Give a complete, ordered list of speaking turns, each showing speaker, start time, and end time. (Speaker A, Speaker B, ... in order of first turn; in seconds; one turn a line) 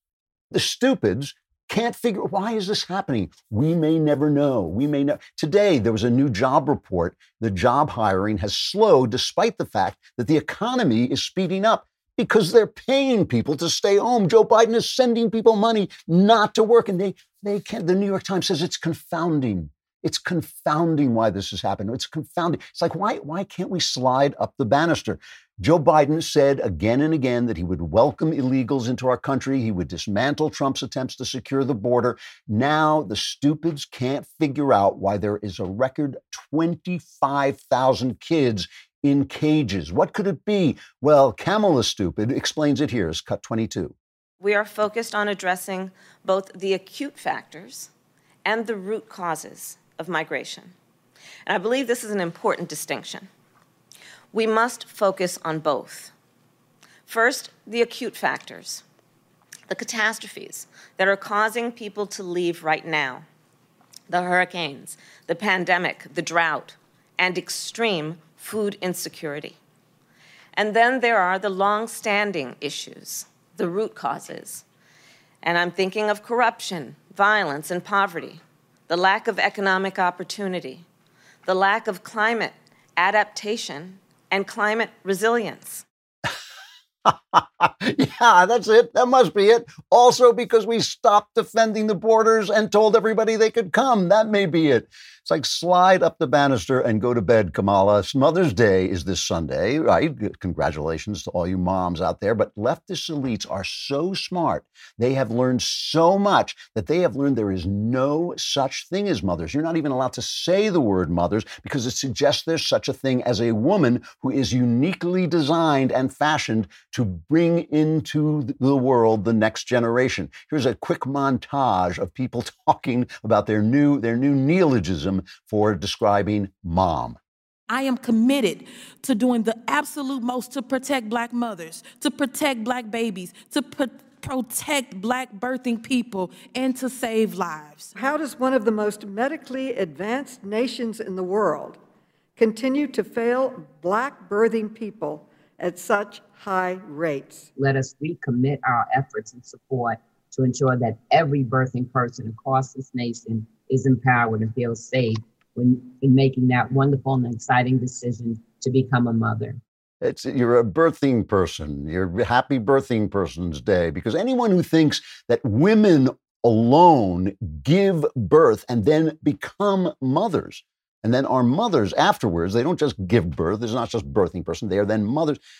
Speaker A: 0.5-43.9
Speaker B: 44.4-47.9
Speaker B: 48.4-50.7
Speaker B: 51.5-53.3
Speaker B: 54.3-56.1
Speaker B: 57.1-58.8
Speaker B: 59.7-63.2
Speaker B: 64.1-69.6
Speaker B: 70.5-74.6
Speaker B: 75.4-80.8
Speaker B: 81.5-85.8
Speaker A: 87.0-127.2
Speaker C: 127.7-137.9
Speaker D: 137.9-141.8
Speaker D: 142.4-147.5
Speaker E: 147.6-159.6
Speaker A: 160.0-175.4